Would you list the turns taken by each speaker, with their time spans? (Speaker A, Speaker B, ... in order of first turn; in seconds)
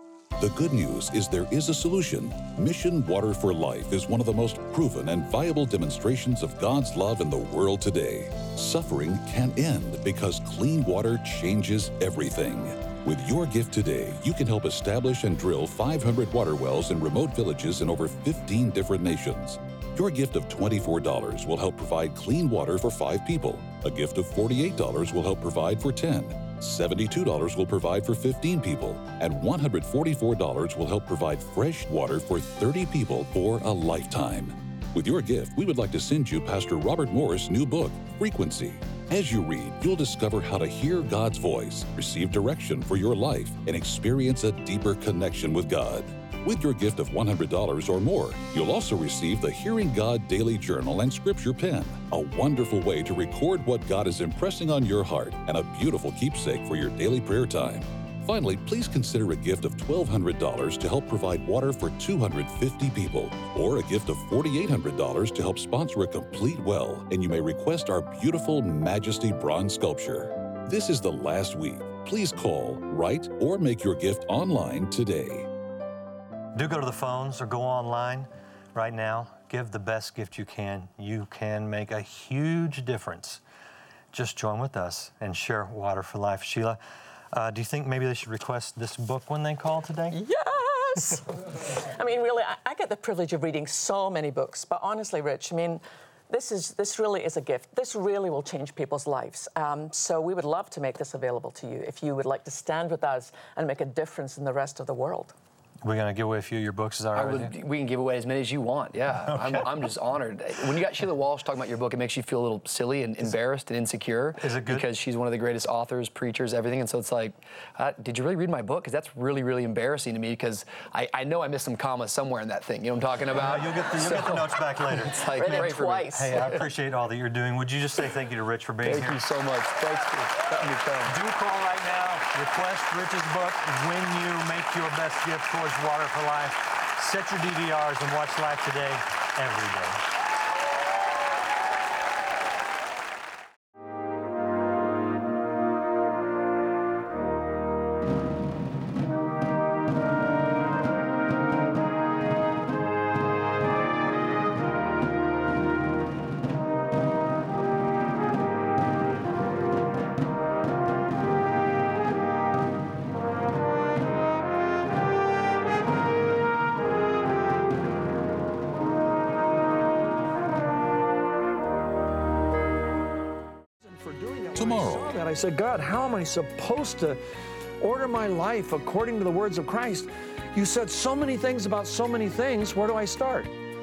Speaker A: 0.4-75.5, 174.5-175.2
Speaker B: 76.5-83.4, 84.1-86.8, 87.3-90.2, 105.8-107.5, 109.3-109.8, 114.4-114.8, 123.3-129.2, 131.1-140.0
Speaker C: 90.1-105.3, 125.4-126.6
Speaker D: 107.1-126.6, 128.8-131.2
Speaker E: 173.8-177.2, 177.8-183.5